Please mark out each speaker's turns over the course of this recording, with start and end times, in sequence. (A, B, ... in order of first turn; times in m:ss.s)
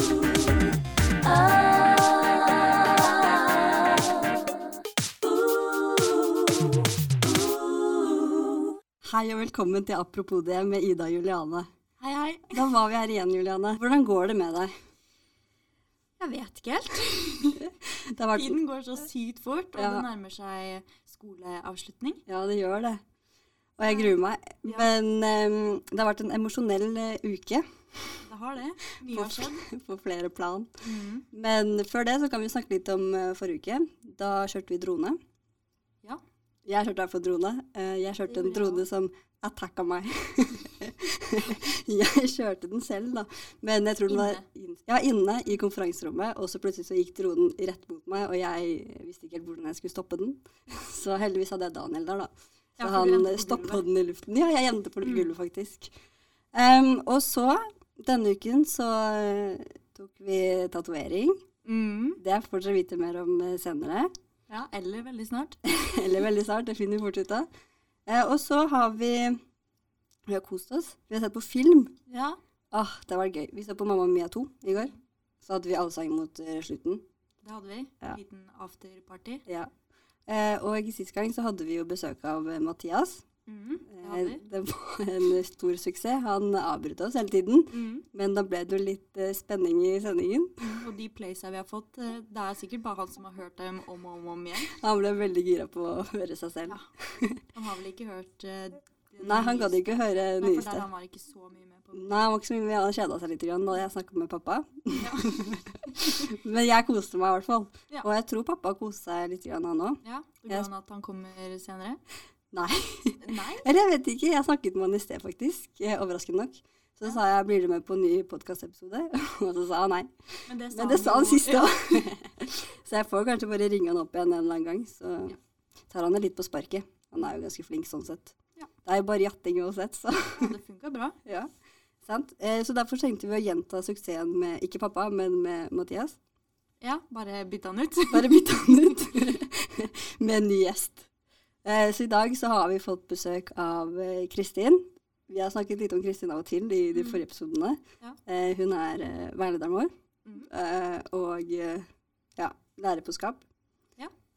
0:09.0-0:11.7 A
0:12.0-0:12.6 B
0:12.5-0:14.7 A
0:16.2-0:17.6 B
0:17.6-0:18.6 A
0:18.3-0:22.2 B
0:19.8-0:20.1 A
0:22.3-0:23.0 A
0:23.8-0:27.7 A
0:23.8-0:24.9 B
0:28.3-0:29.6 B
0:29.1-0:30.7 A
0:30.8-0:31.2 B
0:31.3-0:35.2 A
0:36.6-0:55.9 A
0:38.3-0:38.8 B
0:44.1-0:44.4 B
0:52.8-0:53.8 B
0:55.0-0:55.3 B
0:56.5-1:01.4 A
1:01.6-1:02.2 B
1:02.2-1:04.1 A
1:04.5-1:05.6 B
1:05.6-1:07.5 A
1:08.1-1:09.4 A
1:10.3-1:11.9 A
1:12.1-1:12.4 B
1:12.7-1:17.0 A
1:17.4-1:19.4 B
1:19.5-1:19.7 A
1:20.3-1:23.2 A
1:23.5-1:24.4 B
1:23.9-1:30.5 A
1:27.7-1:28.0 B
1:30.6-1:34.8 B
1:34.8-1:37.4 A
1:37.5-1:39.8 B
1:39.2-1:40.8 A
1:40.4-1:42.1 B
1:41.9-1:50.7 A
1:45.0-1:45.4 B
1:50.0-1:52.0 B
1:52.5-2:00.1 A
1:53.2-1:53.7 B
2:00.5-2:01.7 B
2:00.7-2:05.4 A
2:05.9-2:10.5 A
2:10.4-2:11.2 B
2:12.0-2:16.2 A
2:16.8-2:18.4 B
2:18.1-2:21.1 A
2:21.6-2:29.9 A
2:27.0-2:27.2 B
2:30.5-2:33.4 A